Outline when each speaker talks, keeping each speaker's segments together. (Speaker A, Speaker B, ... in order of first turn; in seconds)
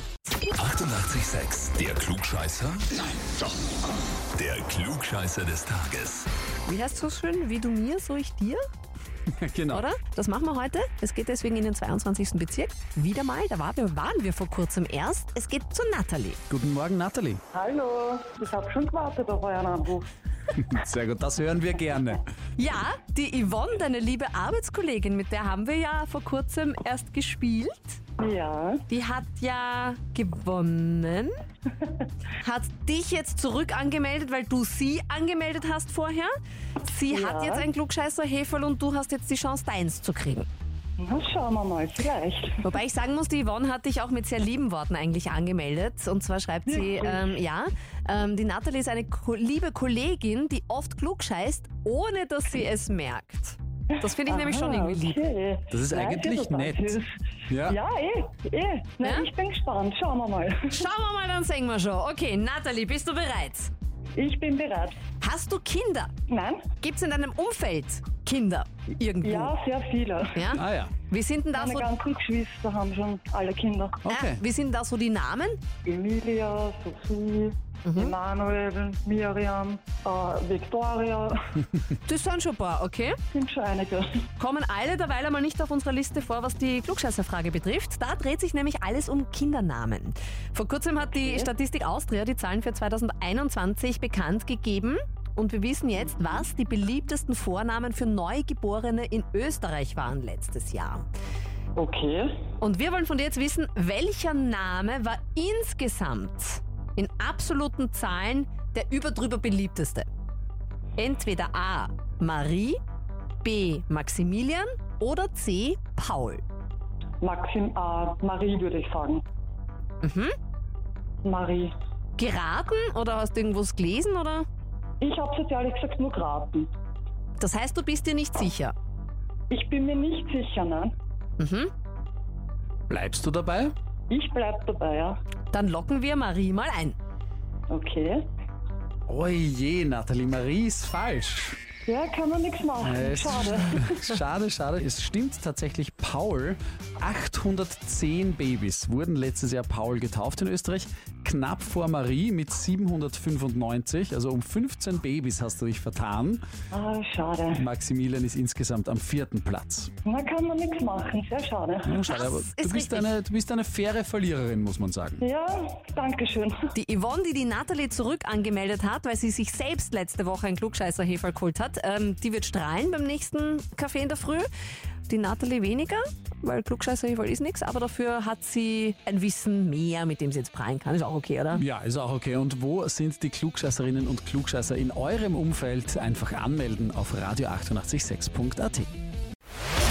Speaker A: 0.6-3.0, 4.4-6.3
Speaker B: 6.7-8.6, 9.7-16.4, 22.6-28.0, 28.9-31.3, 32.4-36.3, 36.8-40.5, 42.6-55.2, 59.0-59.3, 60.7-63.7, 65.2-66.1, 66.8-69.5, 70.3-71.9, 74.1-75.6, 77.8-78.1, 82.0-83.2, 84.4-101.0, 102.6-110.1, 111.0-112.8, 113.4-116.4, 120.0-120.3, 122.2-124.5, 127.4-128.7, 131.4-131.7, 135.5-136.9, 162.0-163.1, 166.7-174.5, 175.1-181.6
Speaker C: 9.4-9.9, 16.5-17.4, 20.6-22.2, 55.7-57.0, 57.5-57.8, 70.5-70.9, 74.0-74.4, 132.9-133.7, 139.1-141.6, 142.8-156.4, 157.5-159.9, 161.8-165.2, 181.5-188.9
Speaker D: 17.5-20.1, 28.2-28.8, 37.1-37.7, 41.0-42.7, 46.7-47.4, 54.0-60.9, 64.1-65.0, 66.3-66.7, 69.2-70.5, 71.5-74.0, 75.8-81.6, 83.3-84.1, 91.1-91.5, 101.8-102.4, 117.2-119.2, 121.2-121.7, 125.0-126.7, 129.5-130.9, 134.1-135.2, 137.7-138.2, 141.8-144.0, 156.7-157.6, 160.0-162.0, 165.2-166.7